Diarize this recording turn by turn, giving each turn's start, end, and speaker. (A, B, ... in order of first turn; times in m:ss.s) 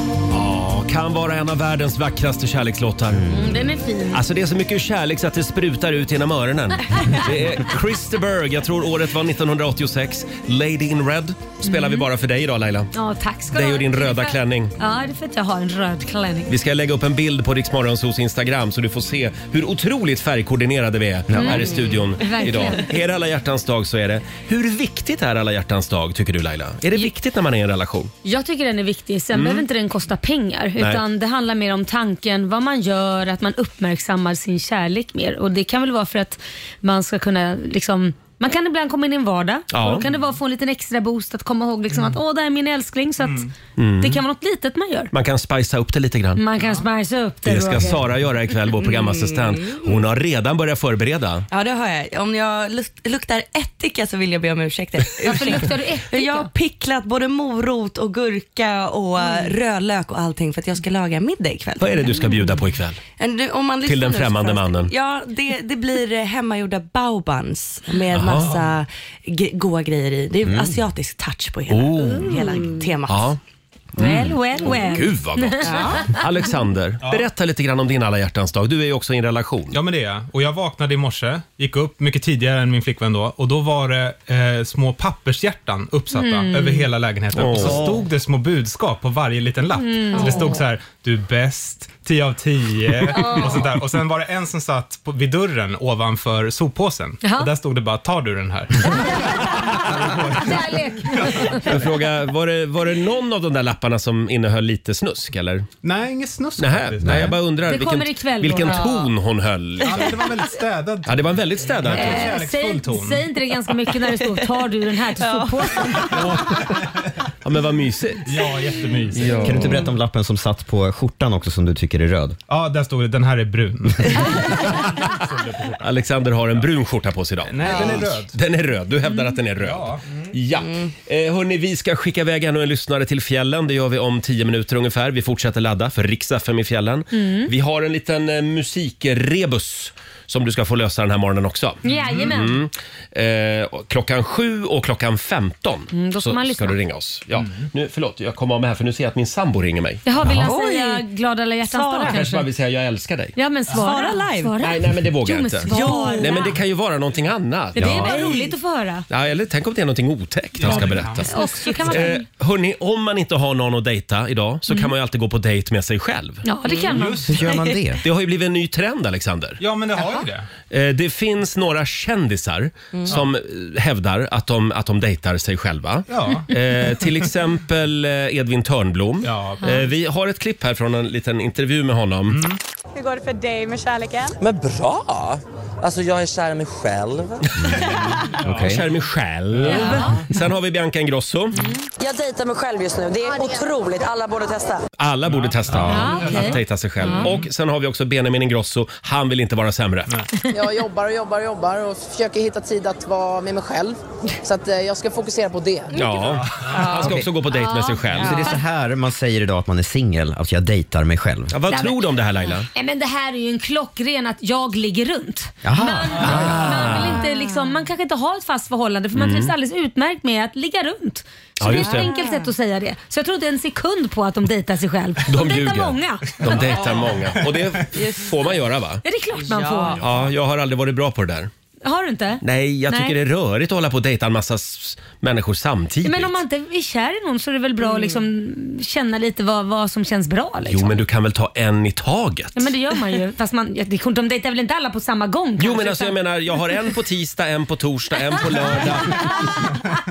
0:00.3-0:03.3 A
0:03.1-0:03.6 B
0:03.3-0:04.2 C
0:04.1-0:12.9 A
0:11.6-0:12.1 C
0:12.9-0:16.5 C
0:13.5-0:14.7 A
0:16.5-0:28.1 A
0:21.3-0:21.8 B
0:21.3-0:22.9 C
0:28.2-0:45.1 C
0:29.3-0:29.6 A
0:39.7-0:40.1 A
0:41.9-0:42.2 D
0:43.2-0:43.5 D
0:43.8-0:44.2 A
0:45.1-0:46.4 A
0:46.4-0:48.0 C
0:46.6-0:46.9 D
0:47.4-0:51.4 A
0:48.8-0:50.0 E
0:51.5-1:02.4 E
0:55.2-0:56.5 C
1:01.8-1:03.0 A
1:03.2-1:13.3 E
1:03.8-1:04.9 A
1:08.1-1:08.6 A
1:10.4-1:10.8 B
1:11.7-1:12.4 A
1:12.1-1:12.7 C
1:13.1-1:13.4 A
1:14.0-1:16.2 C
1:14.0-1:19.8 A
1:15.6-1:16.2 E
1:17.0-1:17.3 D
1:19.7-1:41.6 D
1:26.1-1:26.9 C
1:27.3-1:28.0 A
1:29.7-1:30.6 C
1:33.2-1:33.4 C
1:37.2-1:37.5 C
1:38.9-1:41.7 C
1:41.6-1:45.7 A
1:45.8-1:47.4 D
1:46.6-1:50.2 A
1:47.0-1:47.3 B
1:47.6-1:49.0 C
1:48.6-1:49.0 E
1:49.8-1:53.2 D
1:51.0-1:52.3 A
1:51.9-1:56.2 C
1:54.1-1:54.4 E
1:55.2-1:56.5 E
1:56.1-1:57.1 D
1:57.4-1:58.3 A
1:58.2-1:59.8 D
1:59.1-1:59.8 A
1:59.4-2:02.4 B
2:02.5-2:05.8 D
2:05.8-2:30.0 A
2:07.4-2:08.4 D
2:07.7-2:08.0 E
2:09.6-2:10.0 D
2:10.6-2:10.9 E
2:17.1-2:17.5 C
2:21.8-2:22.6 C
2:21.8-2:22.3 D
2:25.9-2:26.8 C
2:30.0-2:32.5 C
2:30.2-2:30.5 B
2:30.4-2:31.1 E
2:31.6-2:32.2 E
2:32.1-2:33.4 A
2:33.4-2:36.6 C
2:33.7-2:34.5 E
2:34.6-2:38.2 A
2:35.7-2:36.6 E
2:37.7-2:39.0 C
2:37.8-2:38.5 E
2:39.1-2:46.4 A
2:40.6-2:41.4 D
2:41.3-2:42.2 C
2:46.4-2:47.6 C
2:46.6-2:47.7 E
2:46.9-2:47.5 D
2:47.2-2:48.0 B
2:48.0-2:49.6 A
2:49.6-2:50.5 D
2:50.7-3:02.4 A
2:56.1-2:56.5 D
2:59.2-2:59.8 D
3:02.3-3:02.6 D
3:03.0-3:04.3 F
3:04.4-3:07.5 G
3:07.6-3:08.8 B
3:07.6-3:07.9 A
3:08.0-3:08.7 D
3:08.6-3:11.6 A
3:09.6-3:10.2 D
3:09.6-3:10.2 C
3:12.0-3:14.8 F
3:15.0-3:20.1 A
3:15.3-3:16.5 D
3:15.7-3:16.1 B
3:15.8-3:17.3 C
3:17.1-3:17.5 D
3:20.5-3:26.0 F
3:25.9-3:28.5 A
3:26.4-3:27.0 D
3:26.7-3:27.0 E
3:27.0-3:27.3 B
3:27.5-3:28.6 C
3:28.1-3:31.5 B
3:31.5-3:32.7 A
3:31.7-3:32.1 C
3:32.7-3:46.6 C
3:35.6-3:36.8 B
3:36.2-3:37.2 A
3:37.2-3:37.7 E
3:39.2-3:39.5 A
3:41.6-3:42.1 A
3:41.6-3:42.5 E
3:45.3-3:49.0 A
3:47.0-3:47.4 D
3:47.9-3:48.3 E
3:49.0-3:50.0 C
3:49.4-3:50.1 E
3:50.0-3:51.5 A
3:51.8-3:53.2 C
3:52.4-3:56.4 A
3:56.0-4:01.0 C
3:57.8-3:58.2 E
4:00.7-4:02.7 A
4:02.6-4:06.2 C
4:05.6-4:09.4 A